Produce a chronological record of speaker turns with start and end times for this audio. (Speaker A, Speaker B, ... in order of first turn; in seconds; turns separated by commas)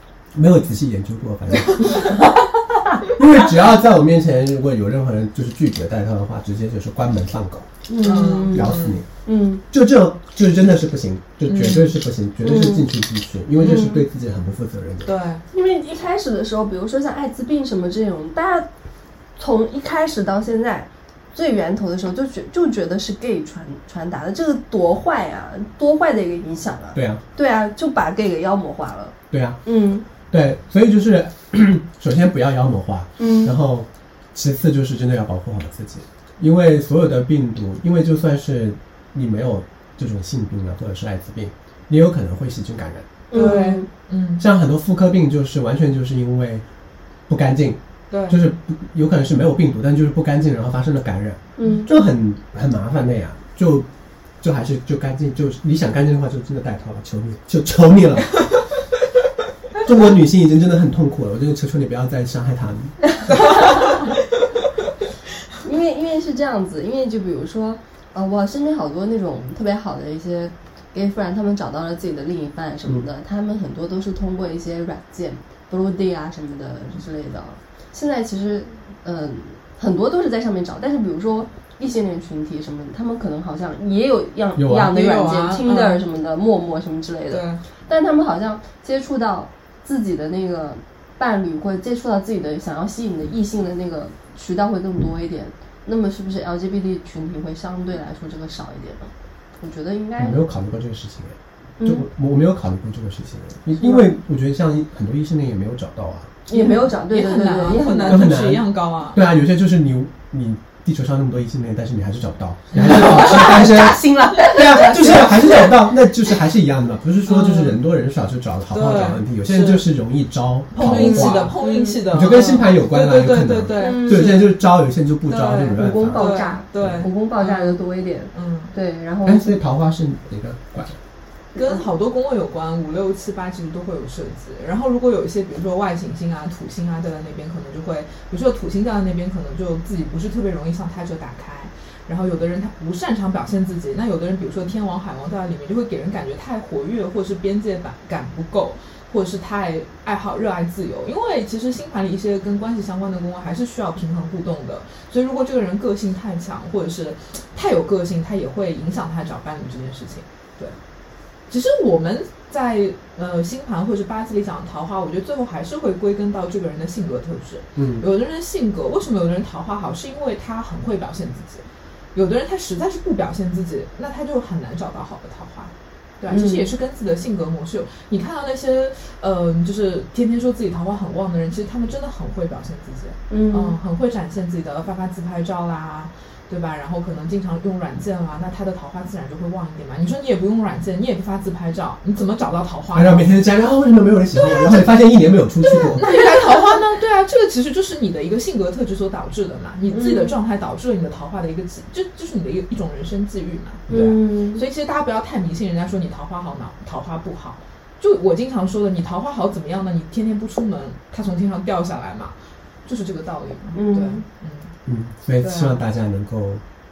Speaker A: 0.3-2.2, Speaker A: 3.1-7.7, Speaker B: 7.9-9.6, Speaker C: 8.0-9.0, Speaker A: 8.5-9.1, Speaker A: 9.7-15.1, Speaker C: 11.5-11.9, Speaker B: 12.4-12.9, Speaker C: 13.6-14.0, Speaker B: 13.7-14.0, Speaker C: 15.0-15.4, Speaker B: 15.5-18.7, Speaker B: 19.4-30.1, Speaker A: 26.9-27.2, Speaker A: 29.3-29.6, Speaker A: 30.2-43.6, Speaker B: 33.2-33.5, Speaker B: 43.3-43.9, Speaker C: 43.3-44.4, Speaker A: 44.4-46.6, Speaker A: 47.3-53.9, Speaker C: 48.1-48.4, Speaker B: 51.6-51.9, Speaker C: 51.6-51.9, Speaker A: 54.4-58.5, Speaker A: 59.8-63.5, Speaker C: 63.4-64.0, Speaker B: 65.6-100.4, Speaker A: 84.5-85.0, Speaker C: 84.8-86.0, Speaker C: 87.3-87.6, Speaker A: 100.2-106.3, Speaker B: 101.8-102.1, Speaker B: 106.5-108.4, Speaker C: 106.5-109.2, Speaker A: 108.1-127.1, Speaker C: 112.7-113.5, Speaker B: 112.8-115.8, Speaker C: 117.3-117.8, Speaker C: 118.7-119.9, Speaker C: 120.7-124.6, Speaker B: 120.8-122.0, Speaker B: 123.7-124.4, Speaker C: 125.3-128.7, Speaker B: 125.8-129.6, Speaker A: 129.2-131.0, Speaker C: 131.6-160.8, Speaker B: 131.6-131.8, Speaker C: 161.5-193.3, Speaker A: 167.8-168.1, Speaker B: 176.3-176.7, Speaker B: 183.3-183.8, Speaker A: 192.9-196.2, Speaker C: 194.6-194.8, Speaker C: 195.7-214.7, Speaker B: 199.9-200.4, Speaker B: 203.9-204.6, Speaker B: 213.7-214.2, Speaker A: 214.9-216.6, Speaker C: 215.4-215.8